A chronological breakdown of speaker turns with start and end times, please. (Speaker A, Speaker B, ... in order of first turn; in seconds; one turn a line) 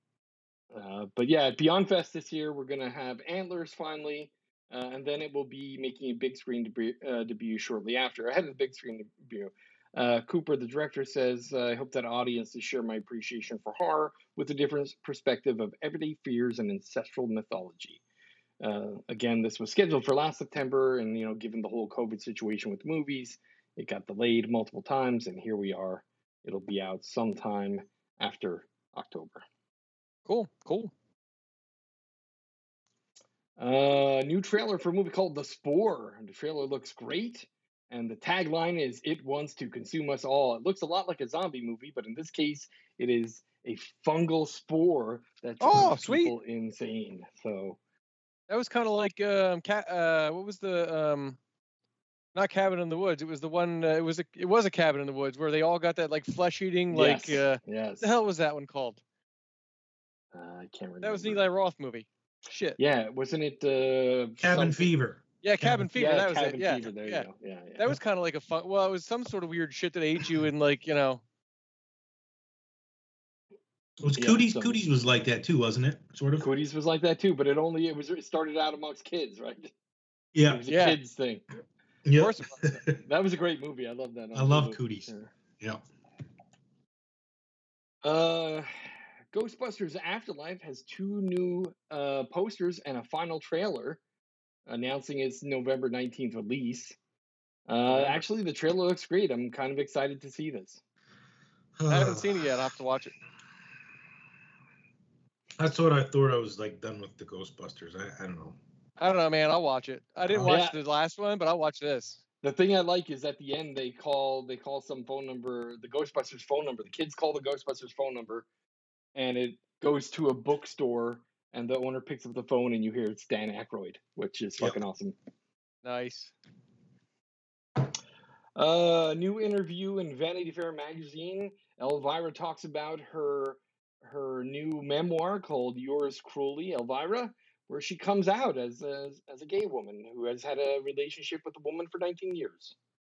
Speaker A: 0.7-18.0
Speaker A: 18.6-29.4
Speaker B: 30.3-30.9
Speaker A: 33.6-47.8
Speaker B: 45.6-46.3
Speaker B: 48.5-51.4
Speaker B: 52.4-59.0
Speaker A: 56.9-58.1
Speaker A: 60.3-61.4
Speaker B: 61.0-62.8
Speaker A: 62.8-64.9
Speaker C: 64.4-65.9
Speaker B: 65.4-67.3
Speaker A: 65.9-67.8
Speaker B: 67.8-71.2
Speaker C: 74.0-76.5
Speaker A: 74.2-74.8
Speaker A: 76.4-79.7
Speaker C: 80.3-80.6
Speaker A: 80.5-81.4
Speaker B: 80.7-81.0
Speaker C: 82.0-83.0
Speaker B: 82.2-82.7
Speaker A: 83.0-85.3
Speaker C: 84.3-85.8
Speaker A: 88.0-88.7
Speaker A: 89.3-94.0
Speaker A: 94.7-97.0
Speaker A: 97.7-100.8
Speaker C: 97.9-98.2
Speaker C: 101.8-102.5
Speaker B: 101.9-103.1
Speaker C: 105.6-108.6
Speaker B: 109.0-112.2
Speaker C: 110.3-110.6
Speaker A: 110.5-110.8
Speaker A: 112.4-118.5
Speaker A: 119.2-125.2
Speaker B: 125.8-126.3
Speaker A: 128.6-142.8